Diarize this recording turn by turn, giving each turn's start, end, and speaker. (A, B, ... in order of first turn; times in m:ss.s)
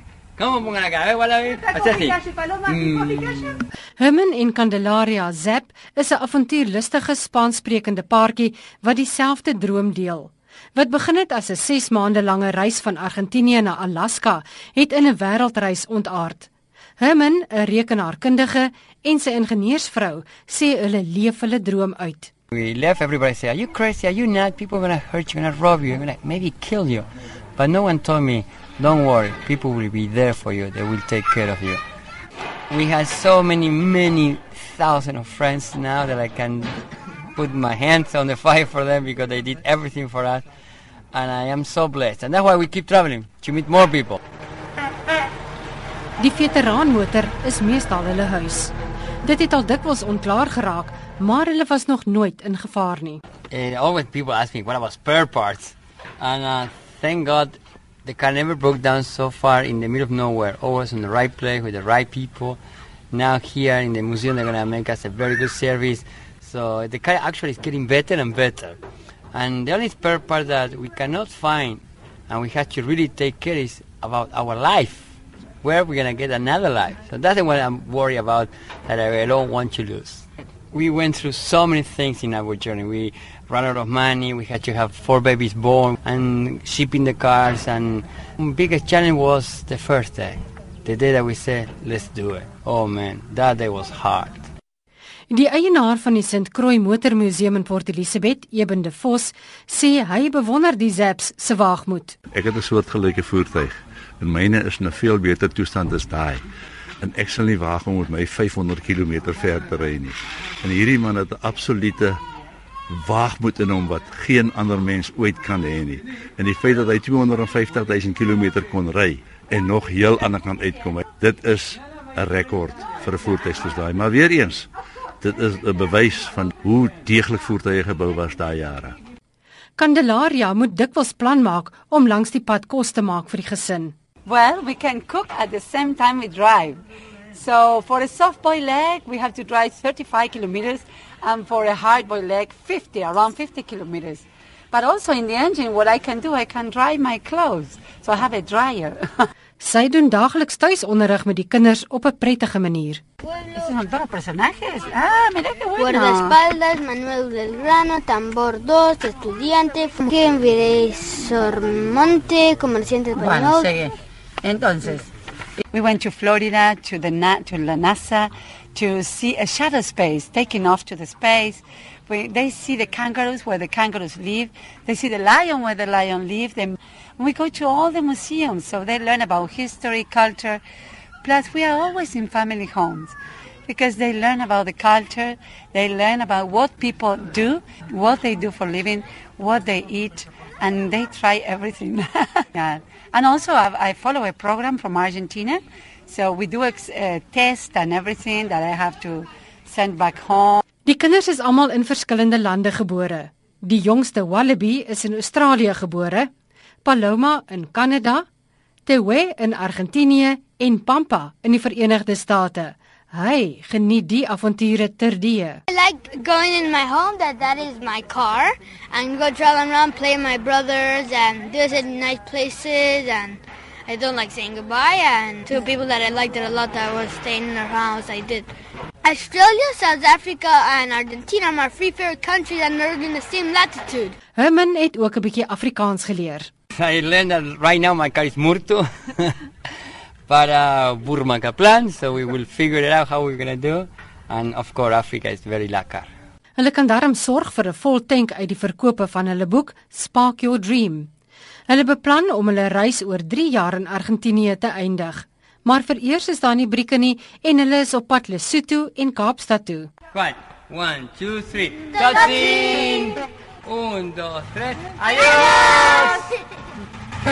0:00.4-0:03.6 A
0:04.0-0:22.3 B
0:22.5-0:31.8 A
0:32.7-0:36.7 A
0:37.3-0:40.4 A
0:41.1-0:44.2 A
0:46.2-0:53.2 B
0:53.5-1:02.6 A
1:03.1-1:08.8 A
1:09.3-1:15.1 A
1:15.6-1:34.5 A
1:35.3-1:42.2 B
1:42.3-1:46.4 C
1:47.0-1:52.2 C
1:52.9-2:04.7 C
2:05.2-2:09.0 C
2:09.8-2:13.9 B
2:14.2-2:16.8 D
2:17.3-2:29.3 D
2:29.6-2:33.0 B
2:33.5-2:36.4 D
2:35.8-2:43.7 E
2:43.2-2:45.1 D
2:45.7-3:00.6 D
3:01.2-3:03.1 D
3:03.7-3:20.6 D
3:20.8-3:26.3 B
3:26.8-3:28.2 B
3:28.8-3:35.6 B
3:35.7-3:48.5 E
3:49.0-3:54.2 E
3:54.4-3:56.5 B
3:56.8-3:59.4 A
4:00.3-4:06.1 A
4:06.6-4:11.1 B
4:11.7-4:19.9 B
4:20.1-4:26.2 A